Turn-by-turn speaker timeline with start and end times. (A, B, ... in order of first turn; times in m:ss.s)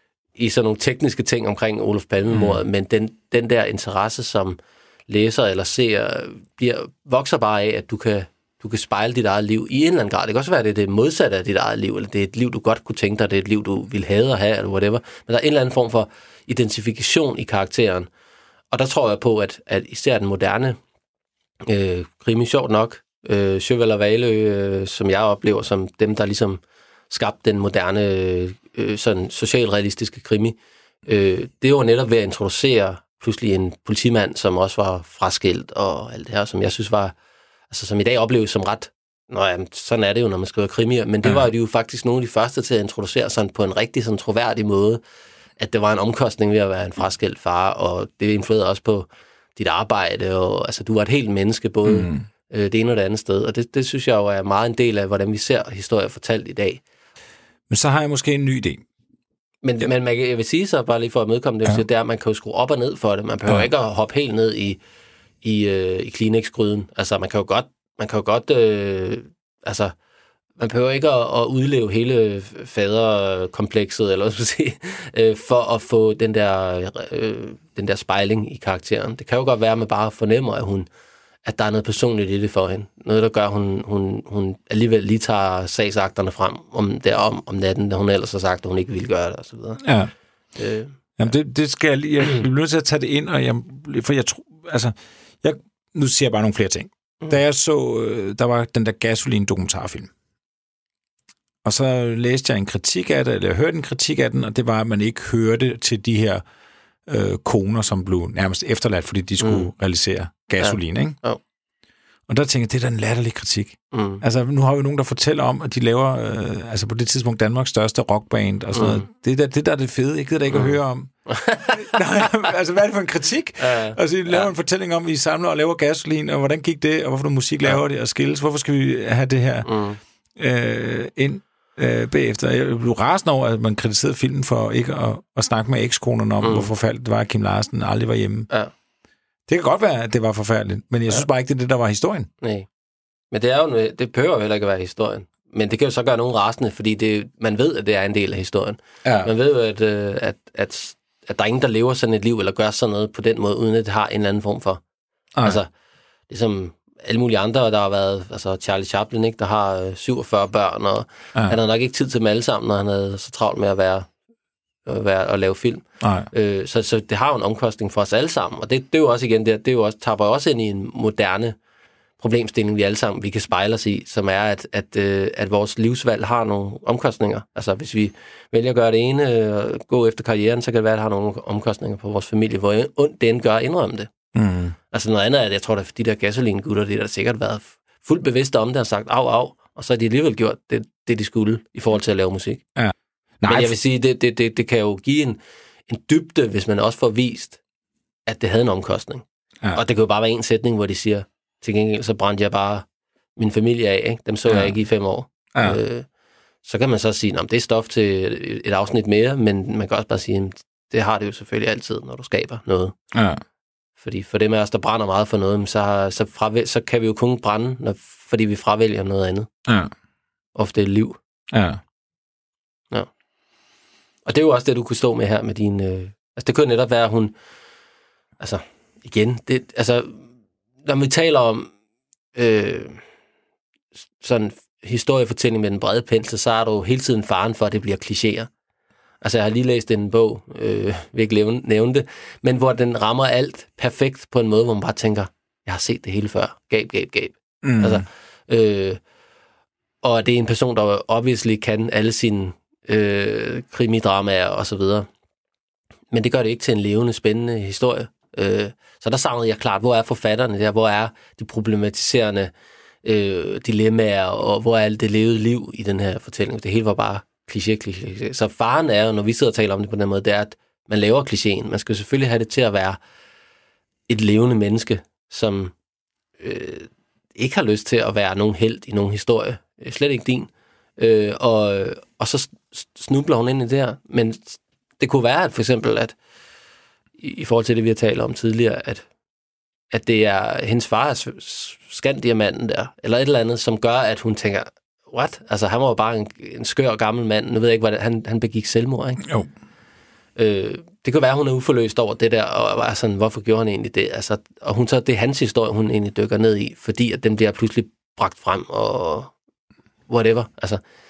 0:00.4-0:18.1 A
0:02.3-0:02.6 B
0:18.7-0:20.8 A
0:21.6-0:37.1 A
0:37.7-0:45.0 A
0:45.6-0:56.8 A
0:51.8-0:52.3 B
0:57.7-0:58.8 B
0:59.6-1:04.8 A
1:05.4-1:09.9 A
1:10.6-1:20.9 A
1:21.4-1:29.8 A
1:29.8-1:30.1 B
1:30.6-1:31.0 A
1:31.2-1:40.1 B
1:41.6-1:46.4 B
1:47.1-1:51.2 B
1:49.4-1:49.6 A
1:50.6-1:51.4 A
1:52.3-2:09.7 B
1:53.9-1:54.2 A
1:58.7-1:59.0 A
2:01.3-2:02.3 A
2:03.6-2:04.5 A
2:09.6-2:10.0 A
2:10.4-2:18.5 B
2:16.4-2:16.7 A
2:19.5-2:22.3 B
2:22.4-2:22.7 A
2:23.3-2:34.8 A
2:29.0-2:29.3 B
2:35.4-2:35.7 A
2:36.3-2:44.1 A
2:44.9-2:51.6 A
2:46.0-2:46.3 B
2:52.2-3:04.1 A
3:04.3-3:04.8 B
3:04.9-3:12.6 A
3:12.8-3:13.7 B
3:13.5-3:17.6 A
3:18.3-3:22.9 A
3:23.4-3:26.1 A
3:24.5-3:24.8 B
3:25.5-3:25.8 B
3:26.6-3:33.0 A
3:33.1-3:33.4 B
3:34.0-3:39.5 A
3:39.6-3:39.9 B
3:40.6-3:41.2 A
3:41.5-3:41.8 B
3:44.3-3:47.4 A
3:48.4-3:50.2 A
3:50.8-3:51.7 A
3:52.4-3:53.0 A
3:54.2-3:58.5 A
3:59.2-4:09.0 A
4:07.6-4:08.0 B
4:10.0-4:15.1 A
4:16.1-4:22.5 A
4:23.0-4:33.0 A
4:34.1-4:35.7 A
4:36.4-4:46.2 A
4:47.2-4:49.0 A
4:49.9-4:59.2 A
5:00.4-5:09.3 A
5:10.1-5:10.8 A